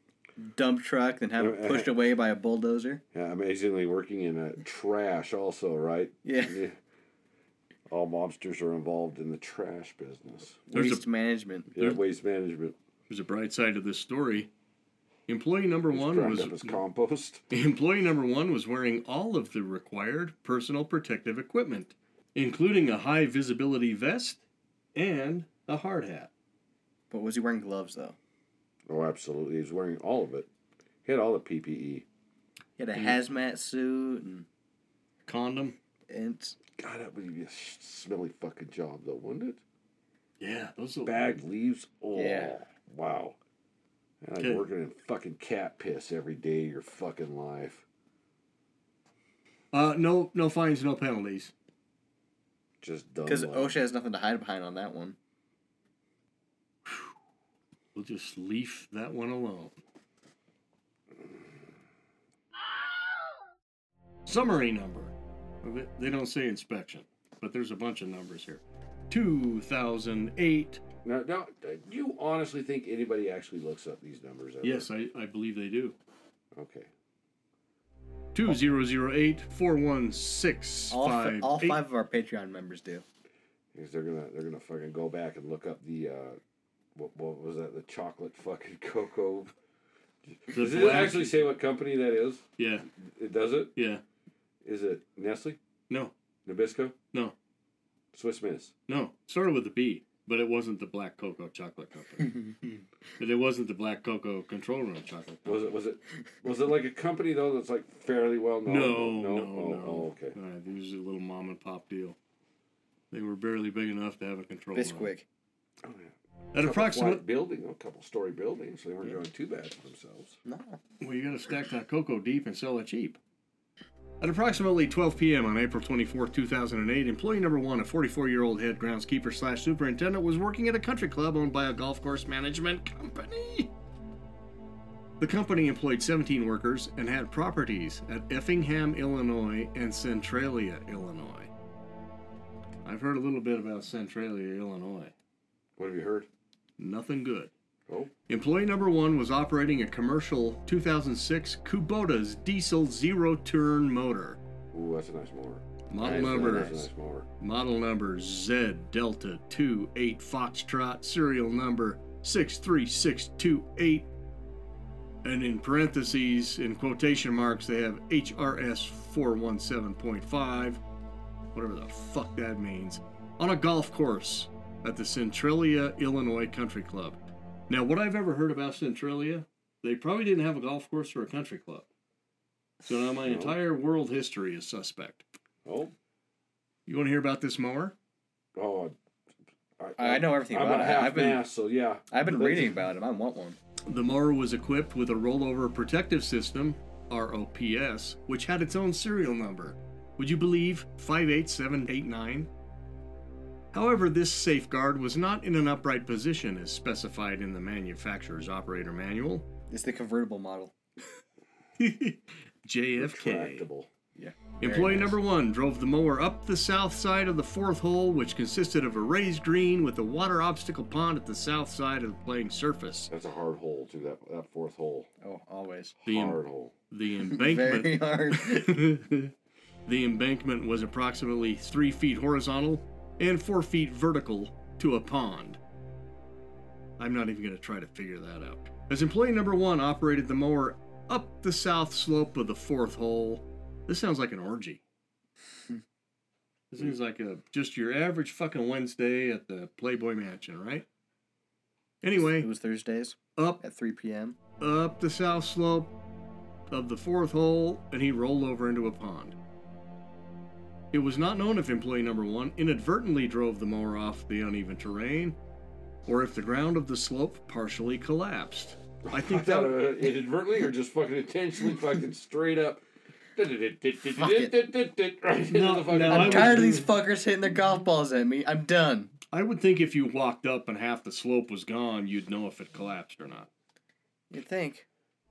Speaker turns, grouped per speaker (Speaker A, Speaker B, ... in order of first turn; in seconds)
Speaker A: 0.4-3.0, 6.2-6.6, 10.7-11.7, 27.1-28.2, 32.8-34.5, 36.1-36.6, 42.1-42.6, 53.3-55.2, 80.9-83.0, 114.7-115.3, 120.5-120.8, 156.0-156.8, 190.0-191.4, 192.1-193.6, 209.7-210.7, 214.2-215.2, 225.2-226.0, 227.2-228.8, 252.2-254.4, 274.2-274.5, 276.1-279.1, 284.3-284.9
Speaker B: 1.4-1.9, 3.1-6.8, 7.9-10.7, 11.7-12.8, 15.9-17.4, 28.9-30.5, 31.1-32.0, 36.8-39.6, 41.0-43.4, 44.2-47.8, 52.8-53.8, 71.0-74.9, 76.5-76.9, 83.7-86.4, 87.0-89.5, 90.3-92.5, 93.0-93.7, 94.6-95.6, 96.5-97.0, 98.1-98.7, 105.5-110.4, 115.8-120.4, 145.8-146.3, 154.7-157.3, 183.2-183.6, 185.7-185.9, 188.6-189.0, 189.8-192.8, 213.0-213.9, 223.1-225.1, 226.1-226.7, 269.1-272.8, 273.4-276.7
Speaker C: 10.7-11.0, 13.1-14.5, 15.3-16.8, 17.5-24.4, 24.9-26.3, 35.3-35.8, 40.4-41.4, 44.4-44.6, 49.7-51.5, 58.0-59.8, 64.3-70.8, 74.6-76.0, 78.3-81.8, 90.5-91.5, 92.6-92.9, 93.8-94.0, 98.9-102.4, 103.2-105.7, 108.7-112.2, 113.1-115.1, 116.5-117.2, 121.0-123.2, 124.2-133.7, 135.2-141.5, 142.8-145.1, 146.8-147.5, 148.3-154.4, 155.9-156.8, 157.4-164.1, 165.2-170.8, 171.5-181.9, 182.9-185.3, 186.9-187.9, 193.9-202.5, 203.7-209.5, 211.8-213.7, 214.6-223.1, 226.1-229.3, 229.9-235.6, 237.0-244.8, 246.7-250.9, 252.0-252.5, 254.6-255.9, 256.7-259.4, 260.9-265.4, 266.1-269.9, 275.5-276.9, 279.3-283.5